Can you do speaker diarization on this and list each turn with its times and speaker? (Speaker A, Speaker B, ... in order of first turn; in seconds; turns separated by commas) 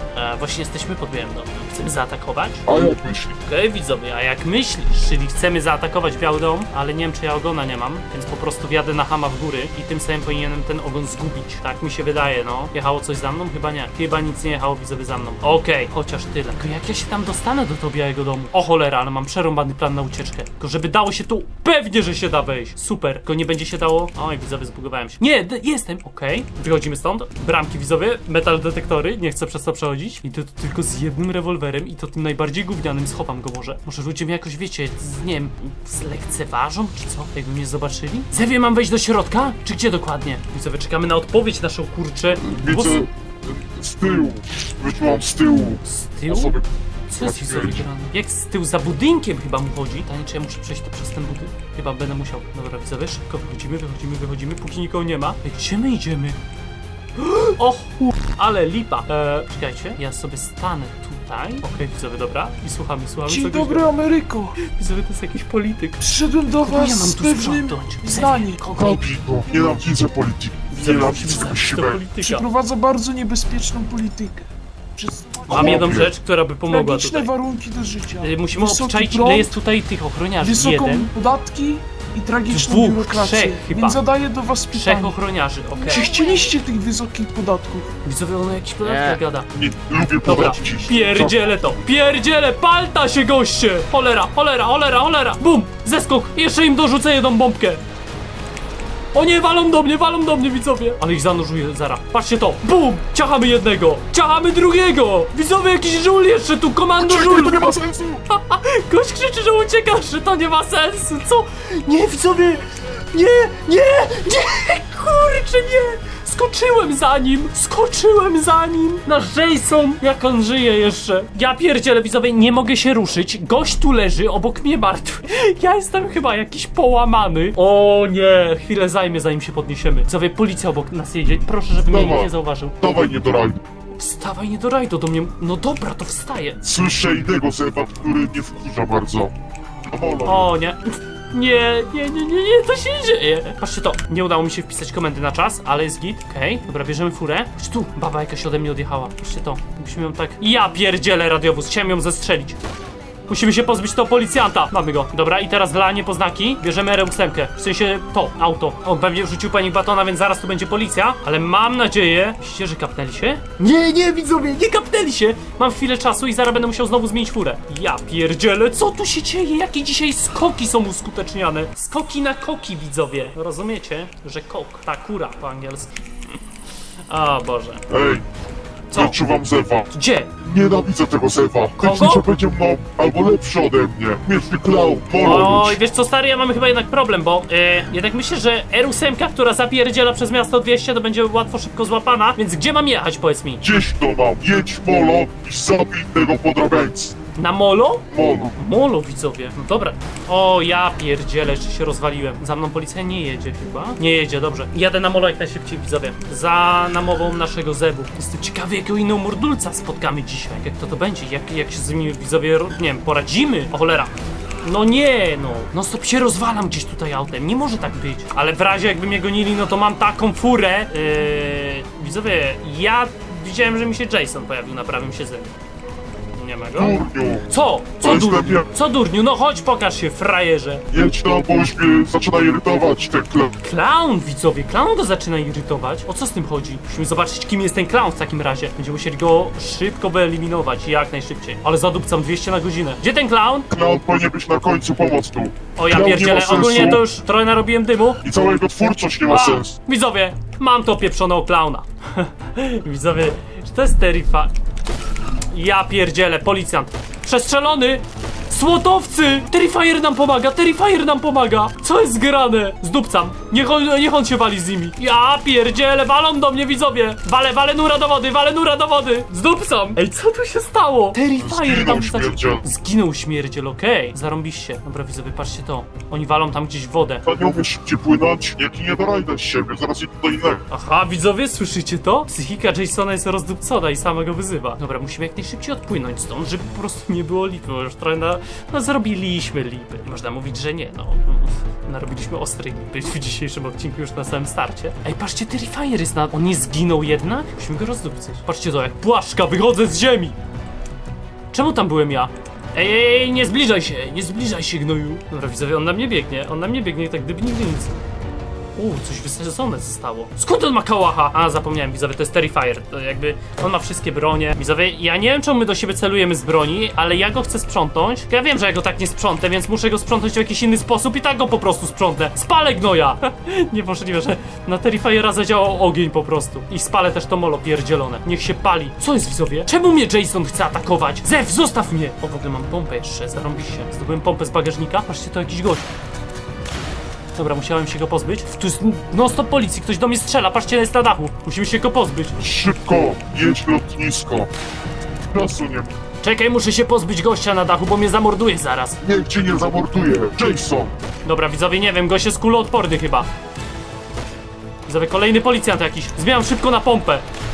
Speaker A: 0.1-2.7, Speaker B: 2.7-3.4, Speaker A: 3.4-43.1, Speaker B: 42.4-47.9, Speaker A: 45.9-46.6, Speaker A: 47.1-56.4, Speaker A: 57.2-63.9, Speaker C: 63.2-64.6, Speaker A: 64.6-66.1, Speaker C: 66.0-68.6, Speaker A: 66.6-69.2, Speaker B: 68.7-72.0, Speaker A: 70.7-72.5, Speaker C: 72.2-74.5, Speaker C: 75.0-76.0, Speaker B: 75.5-76.1, Speaker A: 75.5-77.3, Speaker C: 76.7-79.5, Speaker A: 78.2-81.1, Speaker C: 80.4-85.2, Speaker A: 82.5-84.0, Speaker A: 84.7-86.1, Speaker C: 85.8-87.9, Speaker A: 88.0-89.5, Speaker B: 89.5-91.4, Speaker A: 90.2-97.8, Speaker A: 99.1-107.8, Speaker B: 107.0-108.2, Speaker A: 108.3-132.8, Speaker B: 131.8-133.6, Speaker A: 133.9-136.6, Speaker B: 136.6-139.3, Speaker B: 139.9-140.5, Speaker A: 140.2-152.6, Speaker A: 153.3-176.4, Speaker A: 177.1-177.8, Speaker B: 177.9-178.2, Speaker A: 178.9-179.2, Speaker B: 178.9-179.9, Speaker A: 179.9-180.3, Speaker B: 180.4-185.8, Speaker A: 181.8-182.3, Speaker A: 185.2-193.7, Speaker B: 193.6-197.2, Speaker A: 197.4-225.5, Speaker B: 198.1-198.6, Speaker A: 226.3-230.8, Speaker B: 226.8-227.5, Speaker B: 228.0-228.7, Speaker B: 230.9-233.5, Speaker A: 233.6-243.7, Speaker B: 243.7-247.0, Speaker A: 245.8-248.2, Speaker B: 248.2-249.8, Speaker A: 249.3-254.5, Speaker A: 255.5-277.3, Speaker B: 271.4-272.6, Speaker B: 277.2-280.6, Speaker A: 280.7-300.4, Speaker A: 301.5-308.0, Speaker A: 308.8-335.9, Speaker A: 337.4-342.4, Speaker B: 342.4-344.5, Speaker B: 345.3-345.9, Speaker A: 346.2-349.0, Speaker B: 349.0-350.9, Speaker A: 351.2-353.3, Speaker A: 354.9-357.2